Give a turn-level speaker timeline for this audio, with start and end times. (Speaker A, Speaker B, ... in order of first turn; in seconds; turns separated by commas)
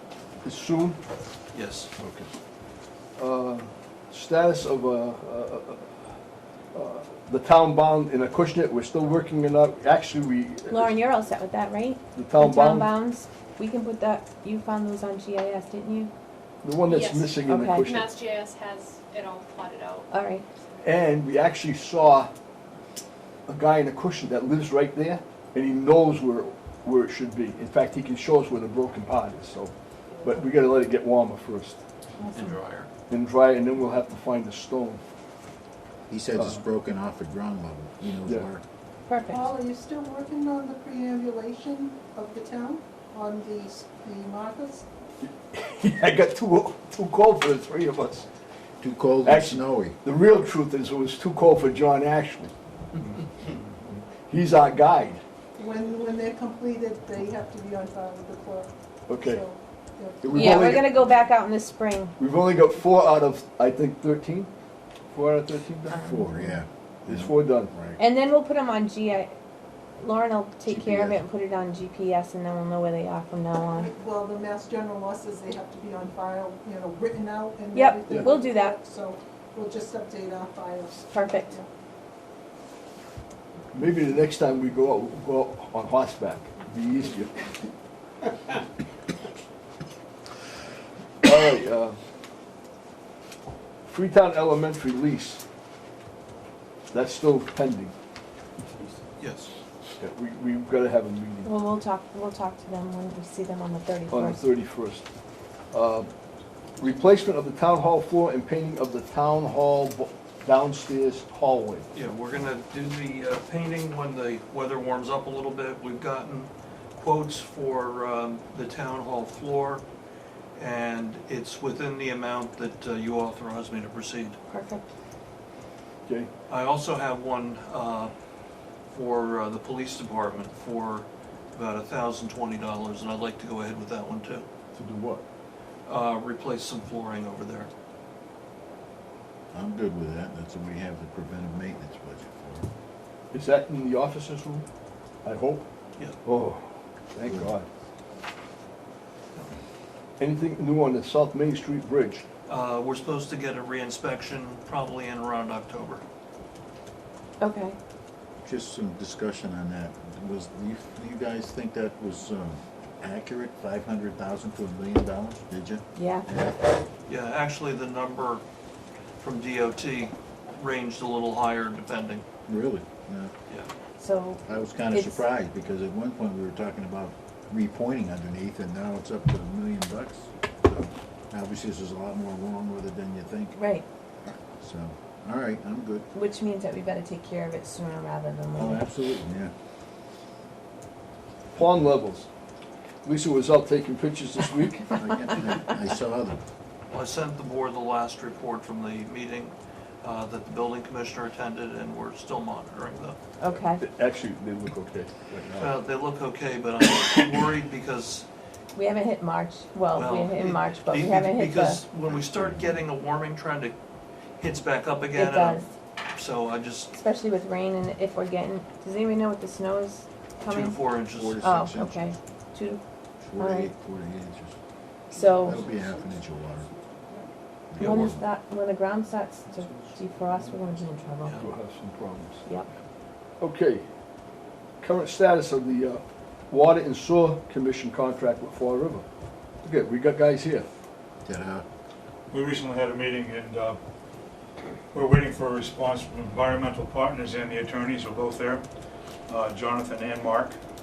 Speaker A: 0.4-1.0, Speaker B: 1.5-1.9, Speaker A: 2.0-2.3, Speaker A: 3.2-6.1, Speaker A: 6.7-10.9, Speaker C: 10.7-16.1, Speaker A: 12.2-13.0, Speaker A: 16.6-18.2, Speaker D: 16.9-17.3, Speaker C: 17.4-18.0, Speaker D: 17.9-20.1, Speaker C: 20.1-20.4, Speaker A: 20.8-22.3, Speaker A: 23.5-29.7, Speaker E: 30.2-30.5, Speaker A: 30.2-31.8, Speaker E: 32.2-32.6, Speaker B: 32.3-32.9, Speaker A: 33.1-35.0, Speaker F: 36.1-38.6, Speaker A: 36.4-36.6, Speaker C: 39.1-39.5, Speaker E: 39.3-44.9, Speaker A: 45.2-48.3, Speaker F: 48.8-50.0, Speaker A: 49.2-52.5, Speaker A: 54.2-55.2, Speaker E: 55.6-60.9, Speaker A: 59.1-59.5, Speaker A: 60.2-61.0, Speaker C: 60.3-62.1, Speaker A: 62.2-64.5, Speaker A: 65.1-66.0, Speaker F: 65.9-68.0, Speaker C: 66.0-66.5, Speaker A: 67.1-67.7, Speaker C: 68.0-69.3, Speaker C: 70.0-73.9, Speaker F: 70.7-71.2, Speaker E: 73.7-81.7, Speaker C: 77.7-78.8, Speaker C: 81.1-81.6, Speaker A: 83.7-87.4, Speaker A: 91.2-92.0, Speaker A: 93.9-95.4, Speaker A: 96.9-97.9, Speaker B: 99.2-99.5, Speaker A: 100.0-101.5, Speaker C: 101.5-104.4, Speaker A: 104.1-105.0, Speaker A: 105.7-106.1, Speaker A: 106.8-111.9, Speaker B: 111.9-119.8, Speaker B: 120.5-124.4, Speaker C: 124.5-124.9, Speaker B: 126.5-128.1, Speaker B: 128.9-134.5, Speaker A: 134.7-135.2, Speaker B: 135.9-137.7, Speaker F: 139.5-142.7, Speaker A: 143.3-144.7, Speaker A: 145.2-145.7, Speaker A: 146.2-147.7, Speaker F: 147.2-147.5, Speaker A: 150.2-152.2, Speaker B: 152.5-156.0, Speaker C: 157.4-157.8, Speaker F: 158.4-166.6, Speaker C: 166.0-166.3, Speaker B: 167.1-168.4, Speaker B: 169.2-172.2, Speaker F: 172.5-173.3, Speaker C: 174.0-175.2, Speaker F: 174.4-183.6, Speaker C: 183.6-183.8, Speaker F: 184.3-186.1, Speaker C: 186.1-188.9, Speaker F: 188.6-189.5, Speaker A: 191.5-192.3, Speaker A: 193.1-195.0, Speaker F: 194.9-196.4, Speaker B: 196.9-203.2, Speaker C: 203.4-203.8, Speaker A: 203.7-205.8, Speaker B: 205.6-208.3, Speaker C: 208.7-211.9, Speaker B: 209.9-213.7, Speaker F: 212.1-212.8, Speaker B: 214.4-216.9, Speaker C: 215.1-215.7, Speaker C: 216.9-220.8, Speaker B: 220.5-221.4, Speaker F: 221.1-222.1, Speaker C: 221.4-222.8, Speaker F: 223.2-224.6, Speaker C: 223.4-223.7, Speaker C: 225.1-225.6, Speaker F: 225.4-226.7, Speaker F: 227.7-228.3, Speaker B: 227.8-228.1, Speaker C: 227.8-231.4, Speaker A: 231.4-232.4, Speaker A: 233.4-233.8, Speaker A: 234.8-239.1, Speaker A: 239.6-240.7, Speaker F: 241.2-241.7, Speaker G: 242.3-243.8, Speaker G: 244.9-248.7, Speaker G: 249.3-250.6